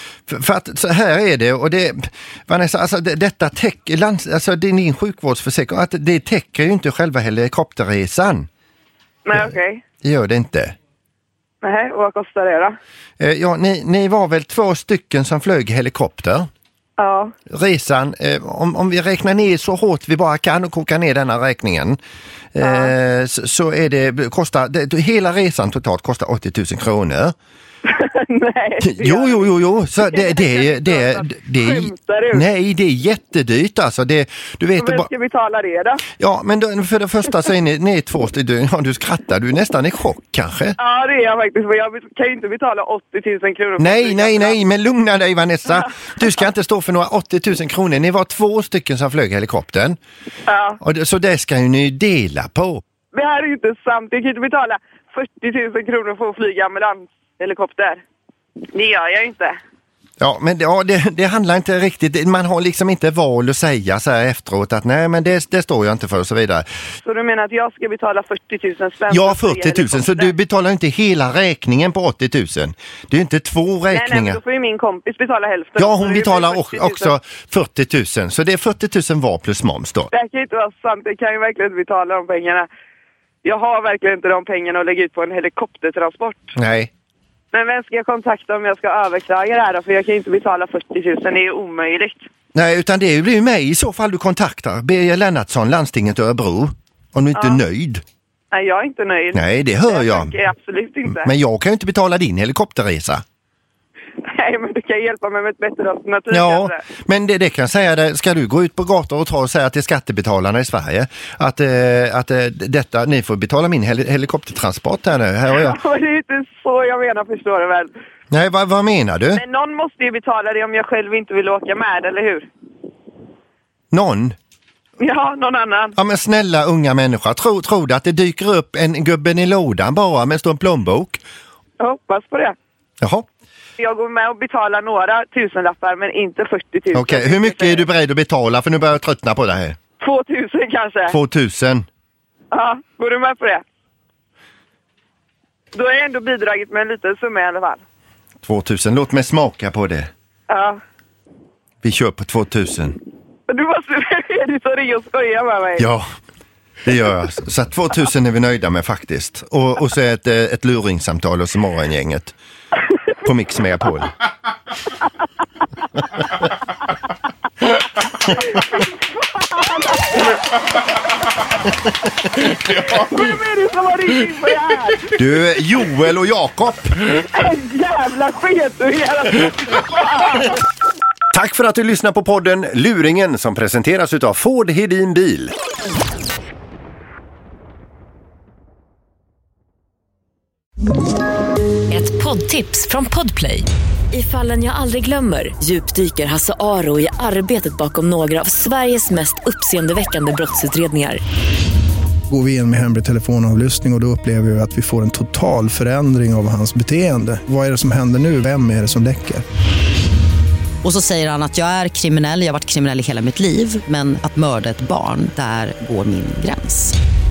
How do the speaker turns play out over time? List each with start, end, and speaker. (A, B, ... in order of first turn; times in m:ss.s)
0:00.3-0:08.5 A
0:09.2-0:09.8 B
0:10.0-0:10.7 A
0:11.6-0:12.8 B
0:13.2-0:16.5 A
0:17.0-0:17.3 B
0:17.5-0:22.0 A
0:22.6-0:27.3 A
0:22.6-0:22.9 B
0:27.8-0:29.5 B
0:28.8-0:35.1 A
0:30.0-0:32.5 B
0:34.8-0:36.0 B
0:36.2-0:40.8 A
0:40.8-0:44.6 B
0:43.8-0:50.0 A
0:50.5-0:50.8 B
0:50.8-0:52.8 A
0:53.1-0:58.0 B
0:58.7-0:59.6 B
1:00.2-1:06.6 A
1:07.0-1:10.3 B
1:09.1-1:14.4 A
1:13.9-1:17.1 B
1:15.8-1:20.1 A
1:20.1-1:22.7 B
1:23.4-1:26.6 B
1:26.6-1:26.9 A
1:27.5-1:32.3 B
1:32.5-1:38.0 A
1:37.4-1:37.6 B
1:38.5-1:41.3 B
1:39.3-1:40.3 A
1:41.0-1:43.2 A
1:44.2-1:46.8 B
1:46.3-1:55.8 A
1:55.5-1:57.9 B
1:58.3-1:59.4 A
1:59.3-2:02.5 B
2:03.9-2:04.4 A
2:05.0-2:06.0 B
2:06.0-2:11.2 A
2:11.8-2:12.6 B
2:13.8-2:17.9 B
2:16.9-2:19.8 A
2:20.0-2:21.2 B
2:21.1-2:21.9 A
2:22.5-2:23.6 B
2:25.7-2:27.8 B
2:28.4-2:30.1 A
2:30.5-2:30.8 B
2:31.8-2:33.0 A
2:33.5-2:35.9 B
2:35.8-2:36.0 A
2:36.8-2:42.3 A
2:43.2-2:44.1 A
2:48.3-2:50.9 B
2:52.3-2:55.2 B
2:55.2-2:57.0 A
2:57.1-3:00.6 B
3:01.3-3:05.5 A
3:11.9-3:21.2 C
3:22.3-3:29.4 D
3:30.9-3:36.9 E